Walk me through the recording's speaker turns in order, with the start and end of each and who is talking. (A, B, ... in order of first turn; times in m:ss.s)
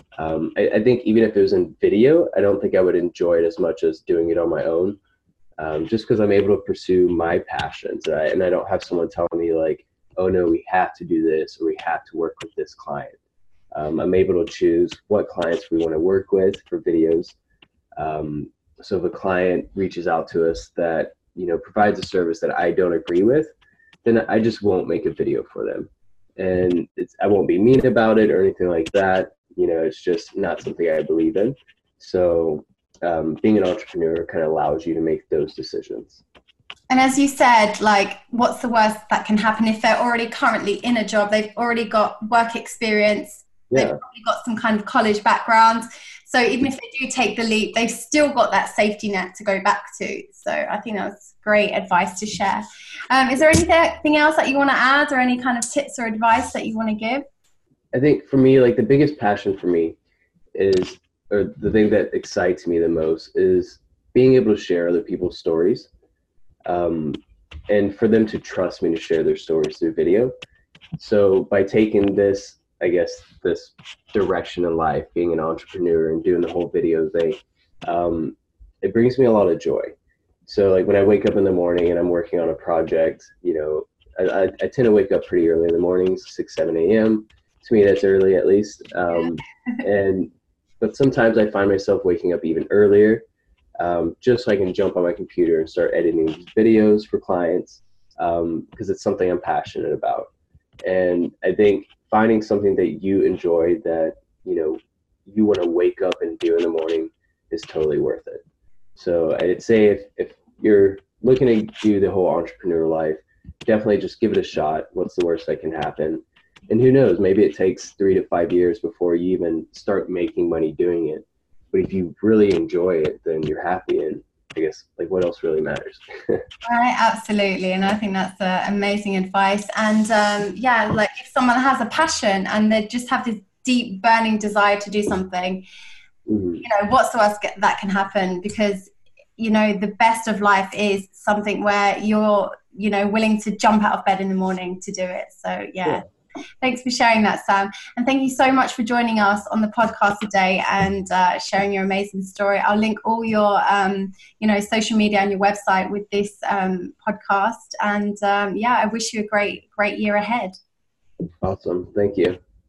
0:00.2-0:05.0 A
0:05.6-0:13.2 A
0:13.7-0:17.4 A
0:18.0-0:23.5 A
0:24.0-0:36.2 A
0:36.9-0:57.2 B
0:43.7-0:44.0 A
0:57.9-1:00.0 A
1:00.5-1:05.9 A
1:06.6-1:10.3 A
1:11.0-1:19.9 A
1:20.5-1:33.2 A
1:29.2-1:29.8 B
1:33.8-1:40.3 A
1:40.8-1:48.4 A
1:49.0-2:06.4 A
2:06.6-2:15.6 B
2:16.3-2:16.6 A
2:16.6-2:26.0 B
2:26.6-2:40.5 B
2:41.4-2:42.4 A